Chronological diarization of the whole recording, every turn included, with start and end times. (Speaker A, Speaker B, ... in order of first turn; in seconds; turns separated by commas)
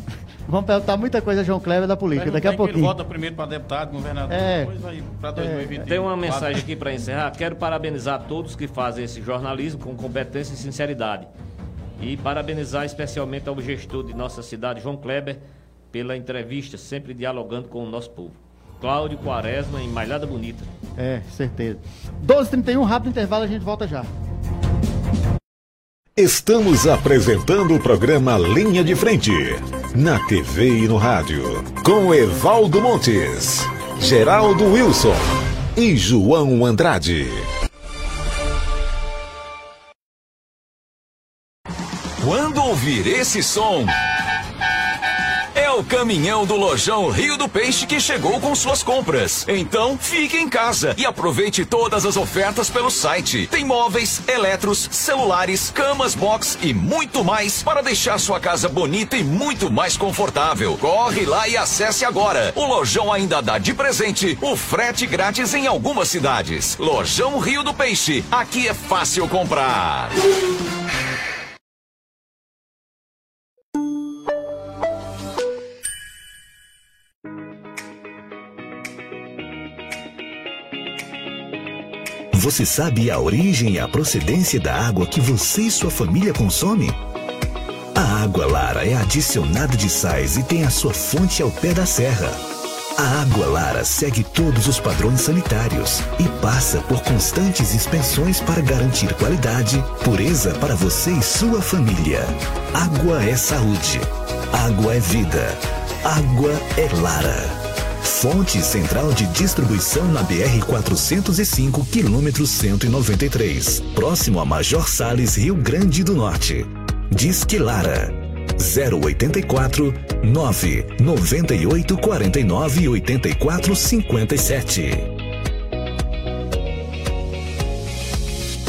Speaker A: 0.5-2.9, Speaker B: 2.1-6.6, Speaker A: 4.3-4.7, Speaker A: 5.3-5.9, Speaker C: 5.8-11.3, Speaker C: 12.0-20.7, Speaker A: 21.0-24.1, Speaker D: 26.1-37.5, Speaker E: 42.2-43.9, Speaker E: 45.5-70.2, Speaker D: 82.3-87.0, Speaker D: 87.9-92.4, Speaker D: 93.0-125.1